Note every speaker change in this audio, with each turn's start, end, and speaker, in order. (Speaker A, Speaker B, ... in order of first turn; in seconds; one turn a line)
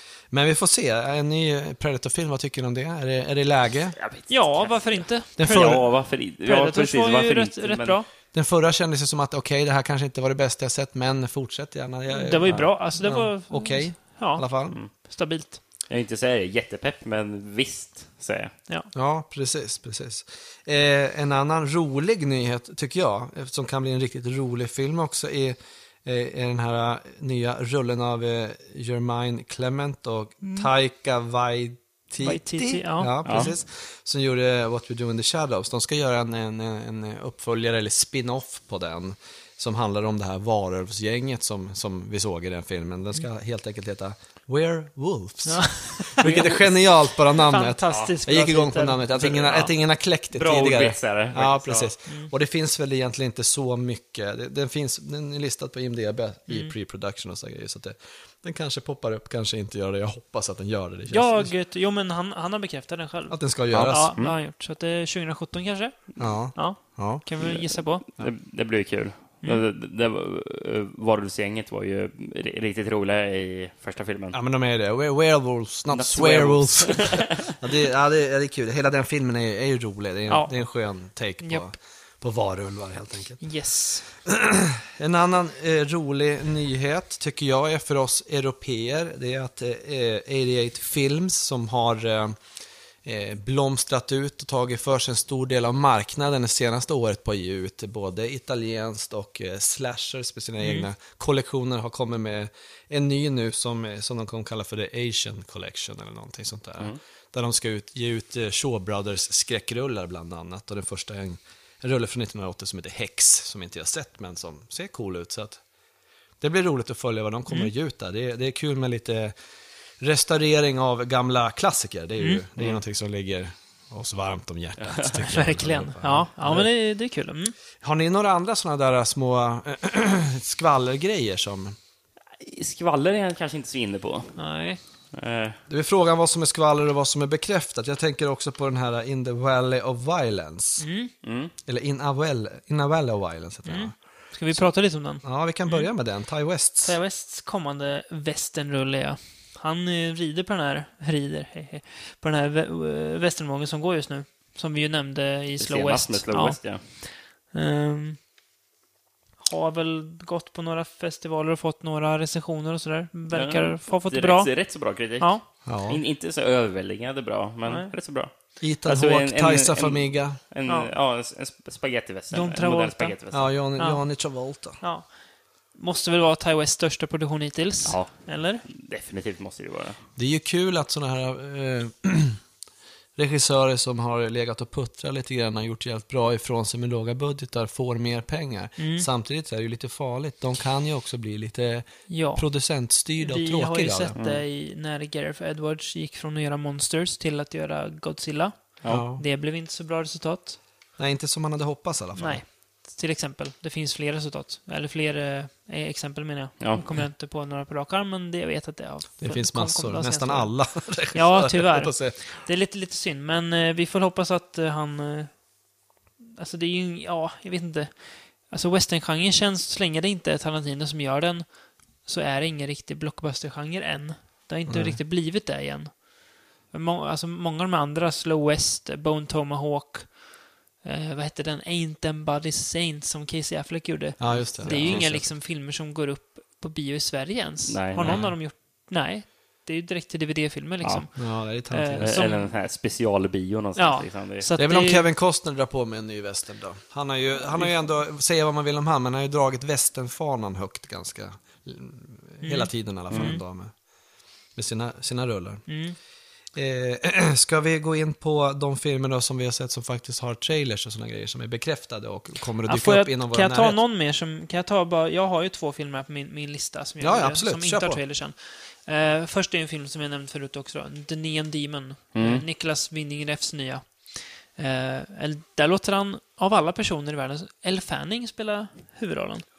Speaker A: 0.3-4.0
Speaker B: 4.0-8.0
Speaker C: 4.3-8.1
Speaker A: 5.4-5.8
Speaker A: 8.3-14.8
Speaker C: 12.1-15.6
Speaker B: 15.9-18.5
Speaker A: 18.9-61.5
Speaker C: 32.2-33.5
Speaker B: 33.2-33.5
Speaker C: 45.4-49.7
Speaker B: 50.3-51.9
Speaker C: 61.1-68.0
Speaker A: 63.3-64.2
Speaker B: 63.7-64.3
Speaker A: 66.2-67.2
Speaker B: 67.4-74.4
Speaker A: 74.3-83.4
Speaker B: 75.9-77.5
Speaker C: 80.3-80.5
Speaker C: 81.4-81.7
Speaker C: 83.4-84.1
Speaker A: 84.2-92.4
Speaker A: 93.0-115.6
Speaker A: 116.4-119.3
Speaker A: 120.0-126.7
Speaker B: 124.8-125.2
Speaker C: 125.3-127.5
Speaker A: 127.8-131.8
Speaker B: 132.4-134.4
Speaker C: 134.4-134.8
Speaker B: 135.1-135.6
Speaker A: 135.7-140.9
Speaker C: 140.8-141.1
Speaker B: 141.2-141.5
Speaker A: 141.7-146.9
Speaker C: 143.7-145.9
Speaker C: 146.8-158.2
Speaker B: 155.6-156.8
Speaker C: 159.4-164.5
Speaker B: 163.3-168.3
Speaker C: 165.2-165.4
Speaker A: 165.7-166.0
Speaker C: 167.7-167.9
Speaker A: 168.6-170.4
Speaker B: 168.8-173.5
Speaker C: 170.7-170.9
Speaker C: 172.3-173.1
Speaker A: 173.3-174.8
Speaker C: 173.8-174.0
Speaker C: 174.8-175.1
Speaker C: 175.7-178.6
Speaker B: 177.9-180.0
Speaker A: 180.2-182.4
Speaker A: 183.2-194.1
Speaker C: 188.8-189.1
Speaker C: 192.1-192.4
Speaker C: 193.2-200.6
Speaker B: 194.1-194.4
Speaker A: 198.9-199.2
Speaker A: 201.0-202.4
Speaker C: 202.2-215.4
Speaker A: 209.2-212.3
Speaker C: 216.3-221.5
Speaker C: 222.0-226.1
Speaker A: 224.7-225.0
Speaker C: 226.7-230.2
Speaker C: 230.8-242.5
Speaker A: 234.2-235.2
Speaker B: 234.6-235.1
Speaker B: 237.7-238.3
Speaker A: 238.0-238.4
Speaker A: 241.1-242.2
Speaker B: 242.0-244.5
Speaker C: 243.8-245.1
Speaker A: 244.6-253.8
Speaker C: 252.4-253.4
Speaker B: 253.1-253.4
Speaker A: 254.5-255.8
Speaker C: 255.7-255.9
Speaker A: 256.5-263.8
Speaker C: 262.7-279.4
Speaker A: 267.0-268.0
Speaker B: 272.1-272.4